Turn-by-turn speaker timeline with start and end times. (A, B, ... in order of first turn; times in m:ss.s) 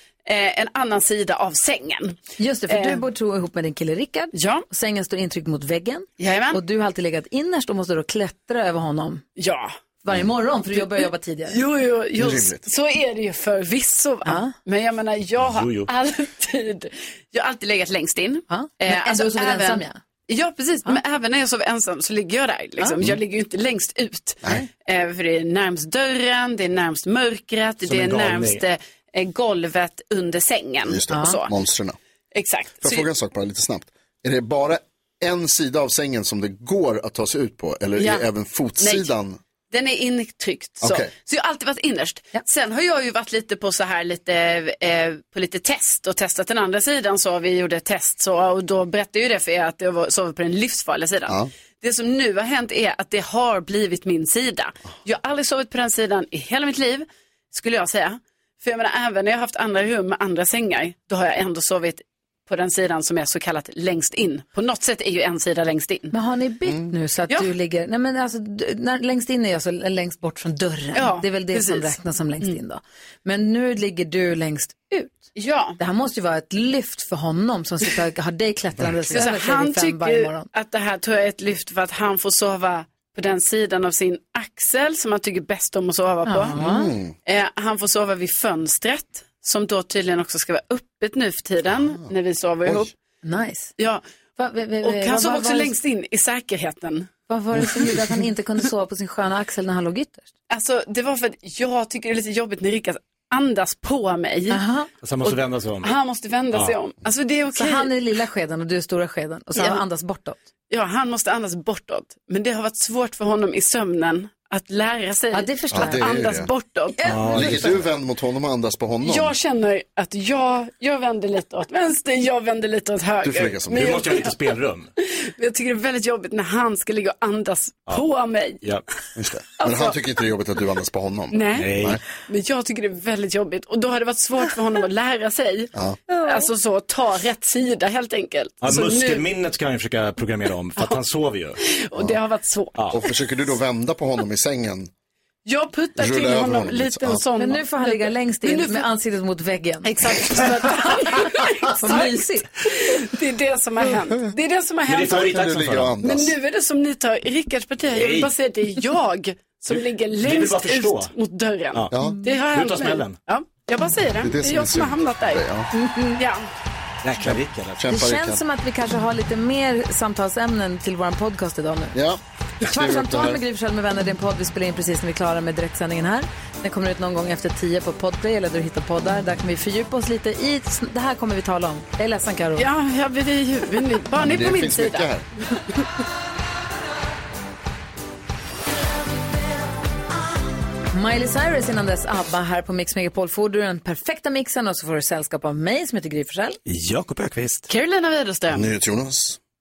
0:00.3-0:03.0 A
0:02.4-0:09.2 B
0:04.3-0:04.7 A
0:06.2-0:06.6 A
0:09.4-0:09.7 A
0:10.0-0:11.6 B
0:10.8-0:31.5 A
0:12.2-0:12.6 C
0:14.3-0:14.5 B
0:15.4-0:15.9 D
0:18.5-0:20.0 B
0:27.8-0:28.6 D
0:30.9-0:32.0 C
0:31.1-0:31.4 B
0:32.4-0:33.1 A
0:32.8-0:39.4 C
0:38.0-0:38.3 A
0:38.8-0:39.1 A
0:39.7-1:06.1 A
0:40.8-0:41.1 C
1:06.1-1:20.5 B
1:11.0-1:12.6 A
1:15.4-1:15.8 A
1:19.1-1:26.6 A
1:26.3-1:26.9 B
1:26.6-1:27.2 C
1:27.3-1:32.9 A
1:33.2-1:33.7 B
1:33.8-1:34.0 A
1:34.4-1:35.8 B
1:34.8-1:37.1 A
1:37.3-1:40.3 B
1:40.5-1:44.6 A
1:44.5-1:44.9 B
1:45.0-1:46.0 D
1:45.2-1:47.9 A
1:47.6-1:50.4 B
1:49.6-1:49.8 A
1:50.7-1:57.6 A
1:55.3-1:56.1 B
1:55.7-1:56.5 C
1:57.0-1:57.6 B
1:57.1-1:57.7 D
1:57.3-1:59.4 C
1:59.0-2:04.4 A
2:03.2-2:04.1 C
2:03.7-2:04.9 D
2:05.0-2:08.7 A
2:09.2-2:12.0 C
2:09.6-2:10.0 A
2:11.3-2:19.3 A
2:11.6-2:12.0 D
2:18.6-2:21.6 D
2:21.6-2:22.8 A
2:22.9-2:24.9 C
2:25.5-2:28.8 A
2:26.0-2:27.2 C
2:27.4-2:29.9 B
2:29.8-2:35.3 A
2:30.9-2:32.5 B
2:34.9-2:35.9 D
2:35.1-2:36.3 C
2:36.0-2:45.4 A
2:37.9-2:38.3 D
2:39.7-2:41.1 D
2:42.5-2:43.2 D
2:44.2-2:45.7 C
2:45.7-2:46.2 B
2:46.2-2:46.5 A
2:47.0-2:47.9 D
2:47.2-2:48.4 C
2:47.9-2:52.0 B
2:51.9-2:53.4 C
2:52.6-3:02.7 B
3:02.6-3:05.8 A
3:04.2-3:05.2 C
3:10.9-3:16.6 B
3:16.7-3:17.7 D
3:17.7-3:18.7 A
3:18.5-3:19.4 C